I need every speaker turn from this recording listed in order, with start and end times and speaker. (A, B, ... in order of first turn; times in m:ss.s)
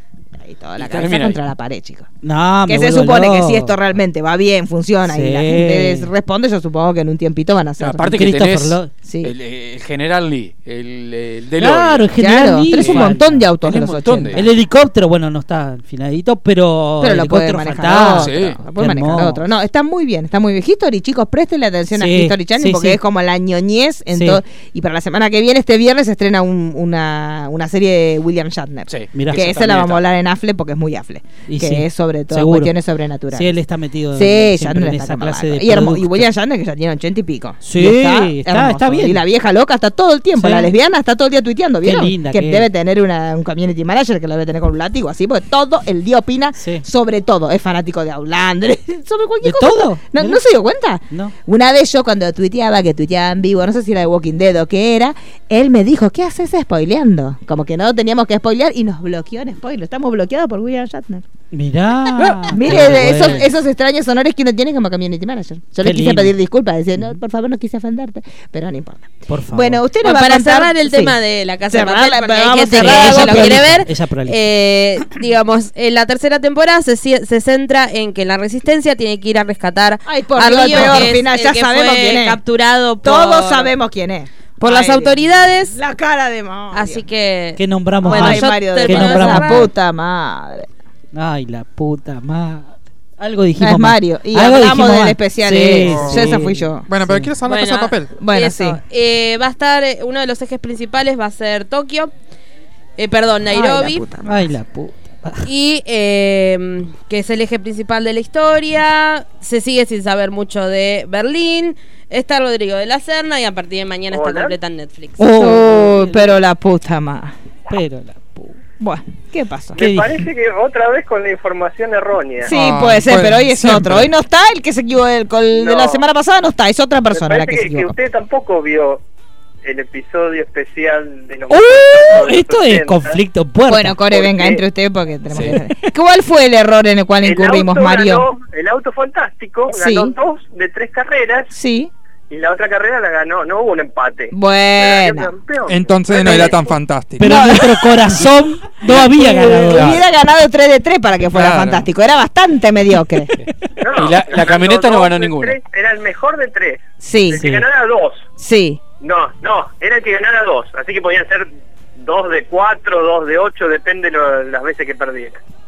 0:00.4-0:02.1 A
0:00.8-0:01.4 B
0:02.2-0:03.8 C
0:02.7-0:08.2 A
0:05.1-0:06.1 C
0:07.8-0:12.1 B
0:08.1-0:08.9 C
0:09.0-0:09.3 A
0:11.6-0:13.5 C
0:12.2-0:14.5 A
0:12.7-0:13.1 B
0:13.6-0:14.4 B
0:14.3-0:19.4 C
0:17.0-0:33.6 A
0:18.2-0:18.6 B
0:21.9-0:23.0 C
0:24.1-0:24.4 C
0:28.9-0:30.0 B
0:29.1-0:29.5 C
0:31.5-0:32.7 C
0:33.3-0:36.3 C
0:34.1-1:01.2 A
0:37.6-0:39.2 C
0:40.4-0:40.7 C
0:41.8-0:42.7 C
0:46.6-0:46.8 C
0:49.4-0:50.4 C
1:01.5-1:03.5 C
1:02.2-1:11.2 A
1:05.8-1:06.3 C
1:09.3-1:09.8 C
1:10.0-1:23.7 D
1:11.7-1:13.8 A
1:12.7-1:14.4 C
1:20.0-1:22.4 A
1:23.0-1:27.0 A
1:24.6-1:25.8 D
1:26.7-1:29.7 D
1:27.6-1:29.7 C
1:28.0-1:30.7 A
1:31.1-1:37.3 C
1:33.6-1:36.8 A
1:35.7-1:38.2 E
1:37.4-1:42.1 D
1:38.2-1:38.8 A
1:43.0-1:44.0 D
1:43.5-1:44.4 A
1:44.2-1:45.5 C
1:45.4-1:55.2 D
1:54.1-1:54.5 F
1:55.2-1:56.2 C
1:55.3-1:57.3 A
1:57.7-1:58.5 C
1:58.8-1:59.8 A
1:59.7-2:02.5 F
1:59.8-2:00.2 C
2:02.4-2:04.1 E
2:02.5-2:07.9 A
2:05.5-2:06.0 F
2:07.1-2:09.0 F
2:09.6-2:13.2 F
2:11.5-2:14.0 C
2:13.7-2:18.2 A
2:14.0-2:14.6 F
2:15.3-2:15.6 C
2:17.2-2:21.5 F
2:19.7-2:20.1 A
2:21.5-2:21.9 A
2:22.3-2:26.7 F
2:24.3-2:25.3 A
2:25.6-2:27.3 E
2:27.2-2:30.0 C
2:27.2-2:28.3 A
2:28.8-2:33.3 A
2:31.3-2:31.9 E
2:33.4-2:35.6 B
2:33.8-2:38.3 F
2:37.0-2:37.4 A
2:37.3-2:37.6 C
2:38.4-2:38.8 A
2:39.0-2:45.4 F